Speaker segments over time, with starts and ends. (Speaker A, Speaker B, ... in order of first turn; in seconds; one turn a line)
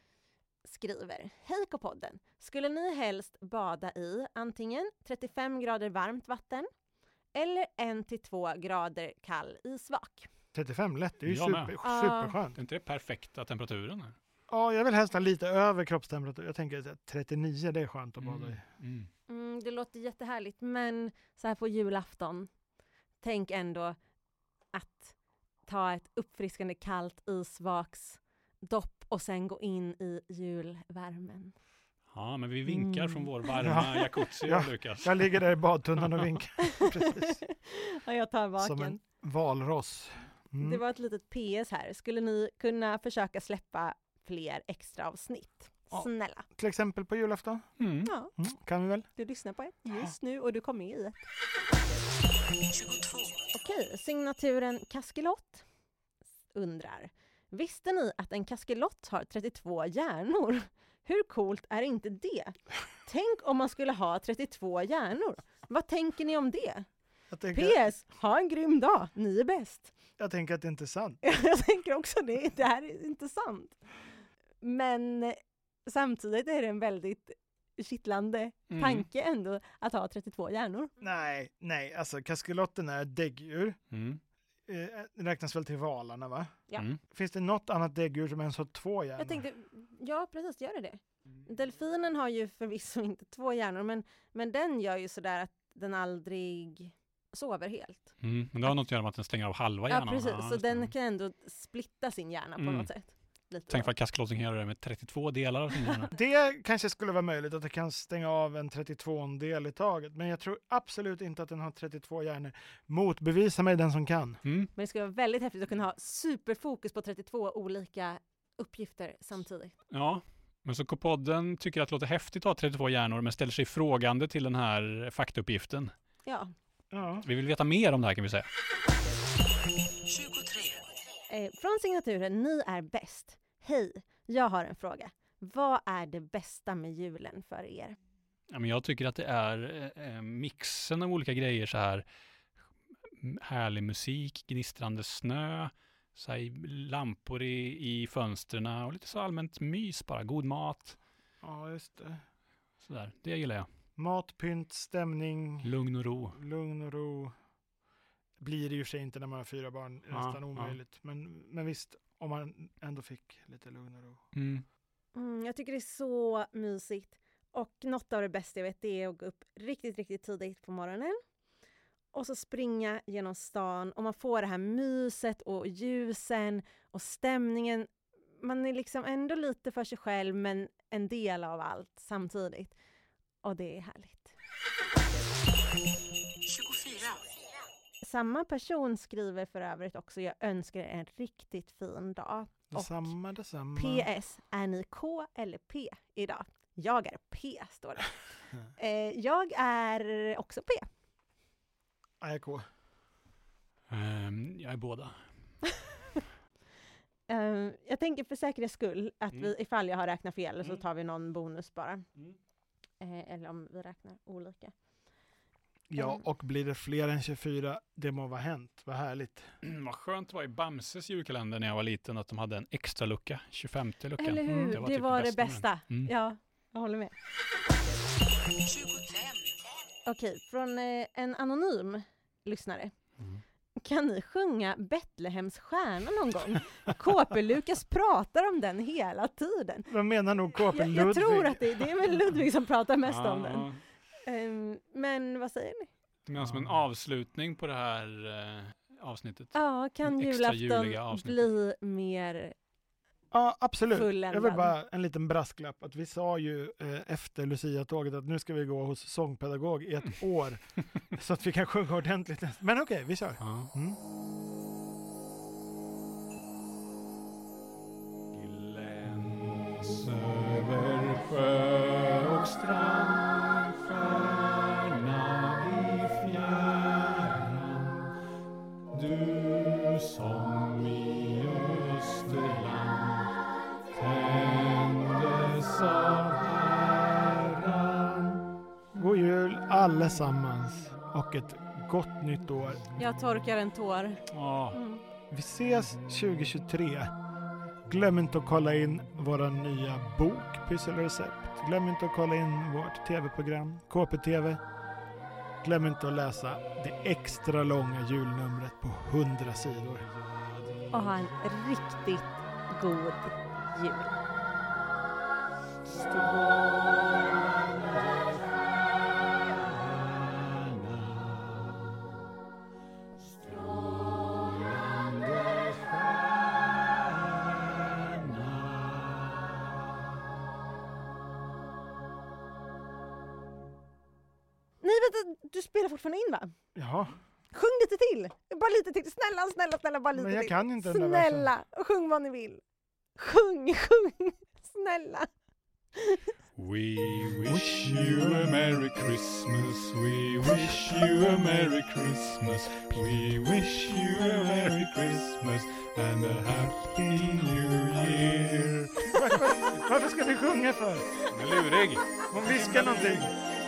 Speaker A: 0.6-6.7
Speaker A: 7.3-10.3
Speaker B: 10.5-12.6
Speaker C: 11.3-11.8
Speaker A: 11.8-12.4
Speaker C: 12.6-14.2
Speaker B: 14.5-18.6
Speaker C: 18.2-19.1
Speaker A: 19.3-22.5
Speaker A: 23.2-24.0
Speaker A: 24.7-25.1
Speaker A: 25.6-31.6
Speaker C: 32.1-35.3
Speaker A: 32.7-34.1
Speaker B: 33.6-37.4
Speaker A: 36.6-39.0
Speaker B: 38.6-40.8
Speaker A: 40.6-46.5
Speaker B: 45.9-47.7
Speaker C: 47.8-48.1
Speaker A: 48.0-48.3
Speaker B: 48.4-49.1
Speaker A: 49.1-51.3
Speaker D: 52.7-53.5
Speaker A: 53.5-55.6
Speaker A: 56.5-66.9
Speaker B: 67.3-67.9
Speaker A: 67.5-69.9
Speaker B: 70.2-71.2
Speaker A: 71.2-73.8
Speaker A: 74.6-80.9
Speaker C: 78.7-79.1
Speaker B: 81.0-83.8
Speaker C: 83.9-84.2
Speaker B: 84.7-89.5
Speaker A: 89.2-98.1
Speaker C: 98.2-100.9
Speaker A: 99.9-103.9
Speaker C: 102.6-102.9
Speaker C: 103.7-106.1
Speaker B: 106.1-114.4
Speaker C: 114.4-114.7
Speaker A: 114.8-119.7
Speaker C: 119.9-125.9
Speaker A: 126.3-126.5
Speaker B: 126.9-127.3
Speaker C: 127.2-128.5
Speaker D: 130.1-130.8
Speaker A: 131.3-138.0
Speaker C: 138.5-142.1
Speaker C: 143.2-151.0
Speaker B: 151.4-152.2
Speaker C: 152.8-153.7
Speaker B: 154.0-155.7
Speaker C: 155.6-156.4
Speaker B: 156.3-157.3
Speaker B: 158.4-164.2
Speaker C: 160.1-160.8
Speaker C: 164.3-164.6
Speaker A: 165.1-171.2
Speaker A: 172.1-182.8
Speaker A: 183.4-184.3
Speaker D: 186.4-187.2
Speaker A: 188.0-193.1
Speaker B: 192.7-194.1
Speaker A: 193.8-198.2
Speaker A: 198.7-200.9
Speaker B: 202.2-202.7
Speaker C: 203.9-205.2
Speaker A: 207.3-212.0
Speaker A: 213.0-214.7
Speaker B: 215.9-219.5
Speaker A: 216.0-216.2
Speaker C: 219.6-226.1
Speaker A: 224.2-227.1
Speaker B: 224.5-224.8
Speaker D: 228.6-229.6
Speaker A: 230.1-232.9
Speaker A: 233.8-239.9
Speaker B: 239.9-241.9
Speaker A: 240.7-243.7
Speaker C: 243.1-243.8
Speaker A: 244.2-245.9
Speaker C: 246.3-251.5
Speaker B: 246.4-246.8
Speaker A: 249.5-252.6
Speaker B: 253.3-264.0
Speaker A: 253.9-254.7
Speaker C: 263.4-263.7
Speaker C: 268.3-278.1
Speaker C: 278.9-283.4
Speaker C: 283.9-288.5
Speaker B: 288.9-292.8
Speaker A: 293.0-295.0
Speaker C: 294.3-294.8
Speaker B: 295.3-297.1
Speaker B: 297.9-304.6
Speaker B: 305.6-310.1
Speaker A: 310.9-314.2
Speaker C: 315.8-322.1
Speaker C: 323.2-329.8
Speaker A: 334.8-336.6
Speaker B: 336.8-337.2
Speaker A: 337.5-342.6
Speaker B: 340.1-341.5
Speaker A: 343.2-345.3
Speaker A: 345.9-346.3
Speaker C: 346.6-359.3
Speaker B: 359.0-361.1
Speaker C: 361.3-363.0
Speaker B: 362.3-363.4